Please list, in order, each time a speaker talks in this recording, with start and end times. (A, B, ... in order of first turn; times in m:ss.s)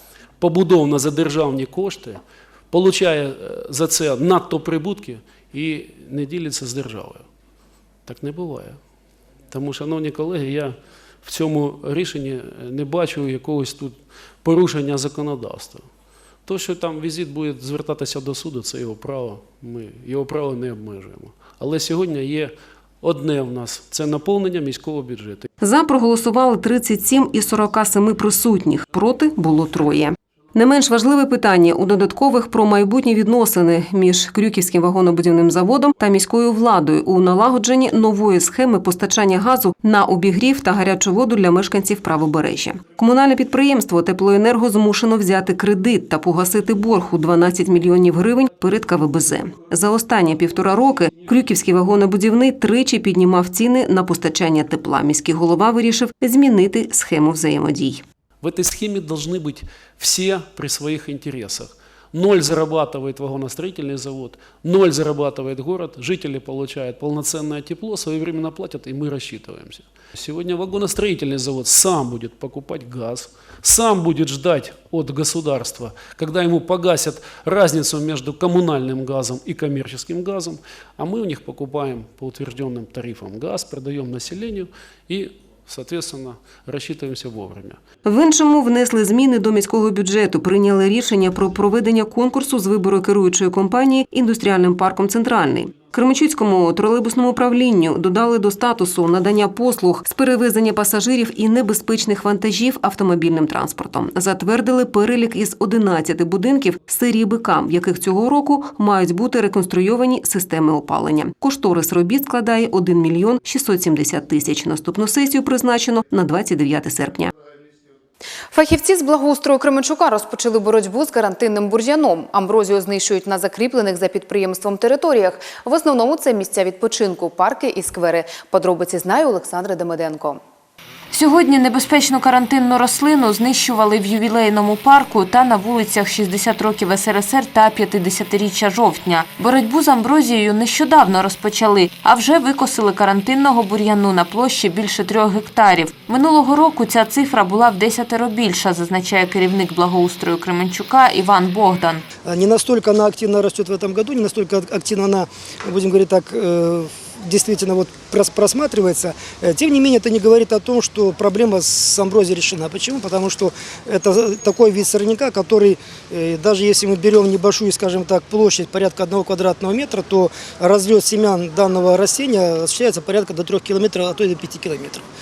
0:00.4-0:07.2 A
0:08.0-0:08.8 A
0:09.5-0:15.8 A
0:16.4-0:25.5 A
0:25.6-0:58.0 B
0:58.4-1:27.8 A
1:28.0-1:57.3 B
1:58.5-2:10.4 C
2:11.1-2:32.0 D
2:32.2-2:55.0 E